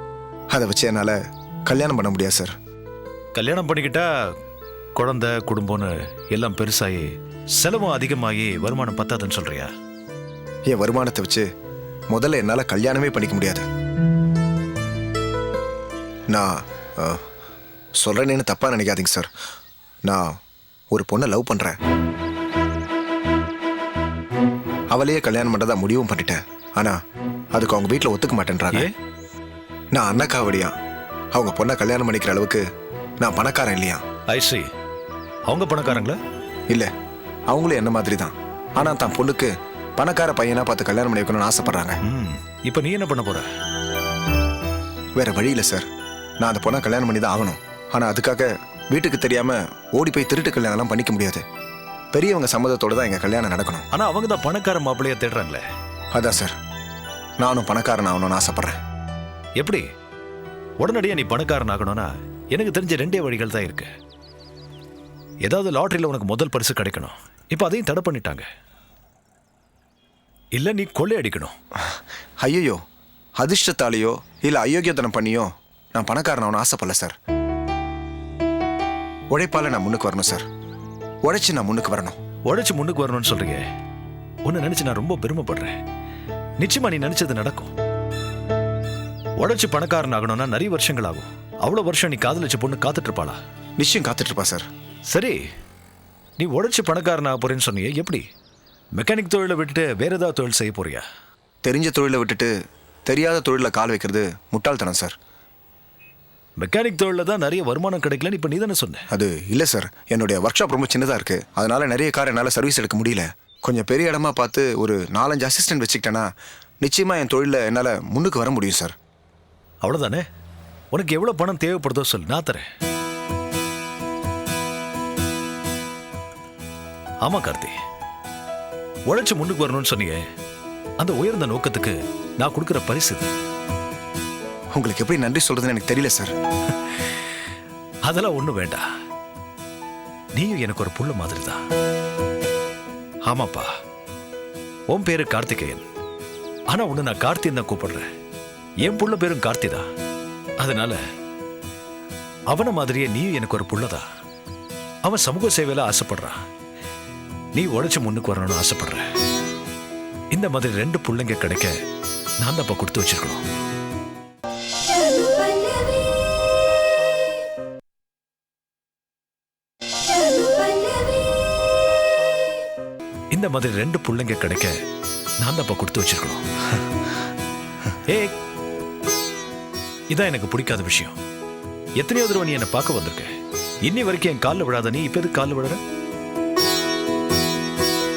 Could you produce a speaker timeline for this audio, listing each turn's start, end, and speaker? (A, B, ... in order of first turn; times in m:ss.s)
0:00.5-0:02.5 A
0:03.3-0:04.1 B
0:05.0-0:07.1 B
0:07.6-0:09.7 B
0:10.7-0:11.4 A
0:12.1-0:13.6 A
0:18.0-0:19.3 A
0:20.0-0:20.3 A
0:20.9-0:21.8 A
0:24.9-0:27.0 A
0:27.5-0:28.9 A
0:29.9-0:30.7 A
0:31.3-0:32.6 A
0:33.2-0:34.0 A
0:34.3-0:34.6 B
0:35.5-0:36.2 B
0:37.5-0:42.0 A
0:42.0-0:43.4 B
0:45.2-0:45.8 A
0:46.4-0:51.4 A
0:52.1-0:53.8 A
0:53.9-0:55.6 B
0:56.1-0:56.5 A
0:57.4-0:58.7 A
1:00.8-1:03.9 B
1:05.4-1:08.4 B
1:10.6-1:11.5 B
1:12.4-1:12.8 A
1:13.4-1:17.1 A
1:19.3-1:20.4 A
1:21.2-1:22.2 A
1:22.5-1:23.6 B
1:24.4-1:25.8 B
1:26.6-1:27.7 B
1:29.4-1:33.4 B
1:33.8-1:34.6 A
1:35.1-1:35.4 B
1:36.4-1:38.2 B
1:39.0-1:41.0 B
1:41.6-1:42.5 A
1:43.1-1:45.1 A
1:46.6-1:49.0 B
1:49.1-1:56.3 A
1:56.8-1:58.9 A
1:59.8-2:00.2 B
2:00.9-2:02.6 B
2:07.2-2:07.8 B
2:09.1-2:10.2 B
2:11.0-2:13.3 B
2:14.8-2:16.3 A
2:18.0-2:18.8 B
2:20.4-2:21.6 B
2:23.3-2:23.7 B
2:24.9-2:25.8 B
2:26.7-2:28.1 B
2:28.8-2:29.8 B
2:30.6-2:31.0 B
2:32.5-2:34.0 B
2:35.0-2:36.4 B
2:37.6-2:39.0 B
2:40.3-2:41.7 B
2:42.4-2:43.4 B
2:53.3-2:54.7 B
2:55.4-2:56.4 B
3:00.1-3:01.2 B
3:02.0-3:03.3 B
3:03.9-3:05.8 B